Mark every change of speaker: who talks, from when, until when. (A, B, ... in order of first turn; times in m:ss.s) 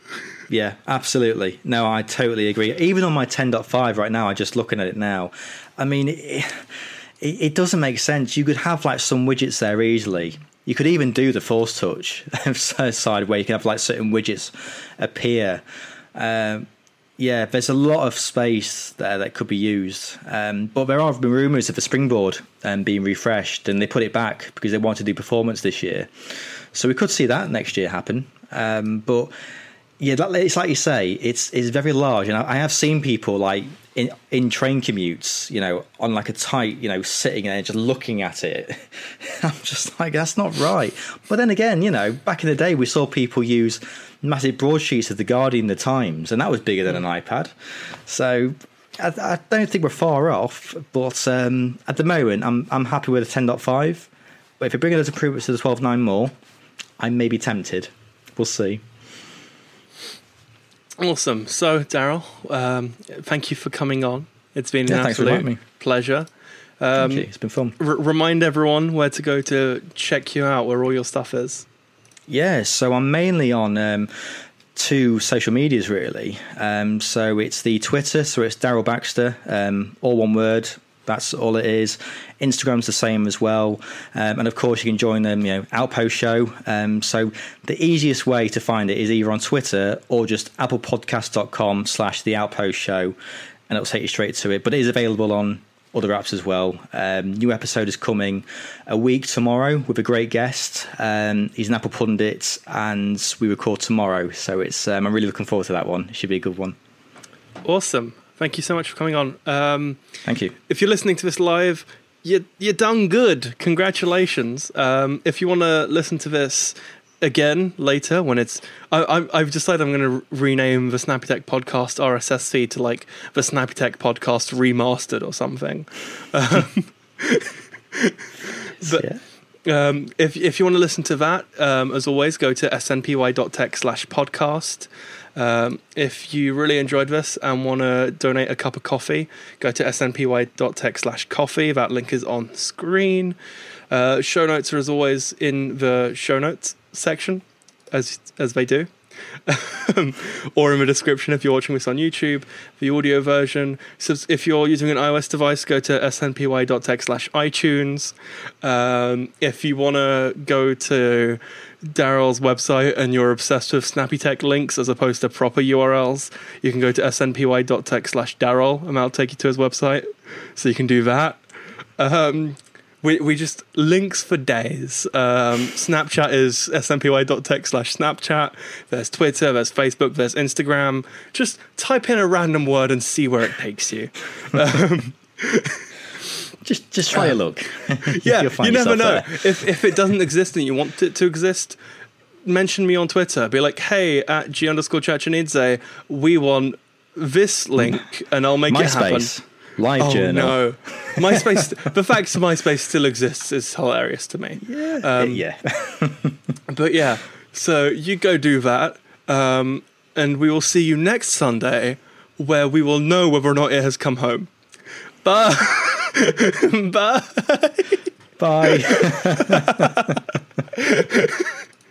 0:00.5-0:15.6 A
0:16.1-0:16.6 A
0:17.2-0:29.3 A
0:30.0-0:56.3 A
0:57.0-0:58.8 A
1:01.0-1:06.3 B
1:04.9-1:05.6 A
1:06.8-1:11.6 B
1:07.0-1:07.8 A
1:12.3-1:33.1 A
1:33.7-1:46.8 A
1:47.6-1:50.0 B
1:50.2-1:50.5 A
1:50.7-2:09.0 B
2:08.8-2:09.2 A
2:09.6-2:23.4 B
2:23.9-2:28.9 B
2:29.4-2:51.4 B
2:52.0-3:05.8 B
3:06.6-3:09.7 A
3:08.1-3:11.8 B
3:12.4-3:19.3 B
3:18.7-3:21.6 A
3:20.0-3:25.4 B
3:24.6-3:26.5 A
3:26.7-3:34.5 B
3:35.2-3:38.0 B
3:38.4-3:40.2 A
3:38.6-3:41.5 B